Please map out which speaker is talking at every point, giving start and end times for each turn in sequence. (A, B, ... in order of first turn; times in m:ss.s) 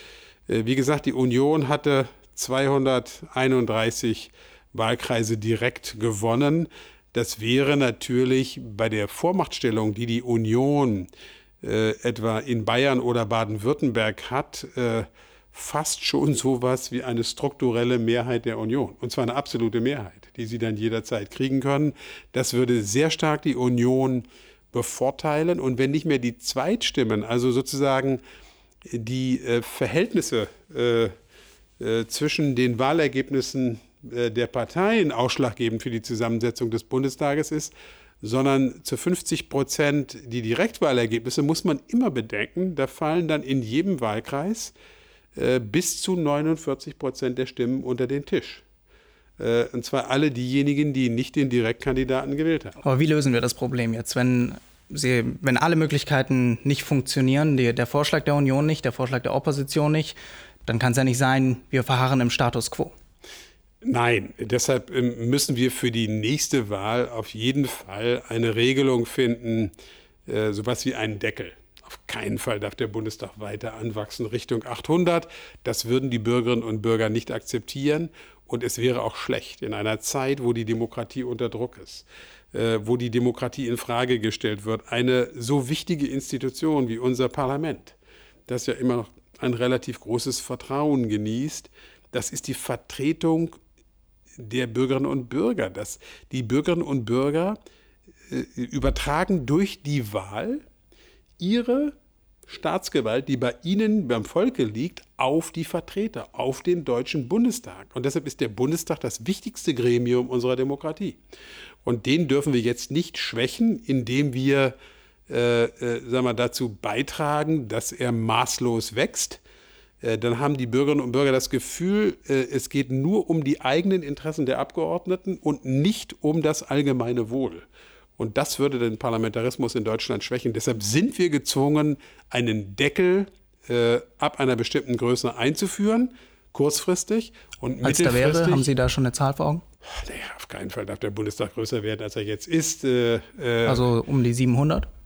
0:00.5-0:11.1 A
0:11.6-0:28.2 A
0:28.9-0:31.1 A
0:31.8-0:44.7 A
0:45.4-0:48.6 A
0:49.4-0:52.8 A
0:52.8-1:02.9 B
1:03.8-1:09.7 A
1:10.3-1:28.0 A
1:28.5-1:33.6 A
1:34.4-1:37.6 A
1:38.3-1:40.6 A
1:41.4-1:42.0 A
1:42.5-1:51.2 A
1:51.8-1:54.8 A
1:55.3-1:59.4 A
2:00.0-2:07.6 A
2:08.2-2:18.7 A
2:17.8-2:19.6 B
2:20.0-2:23.9 A
2:23.7-2:24.9 B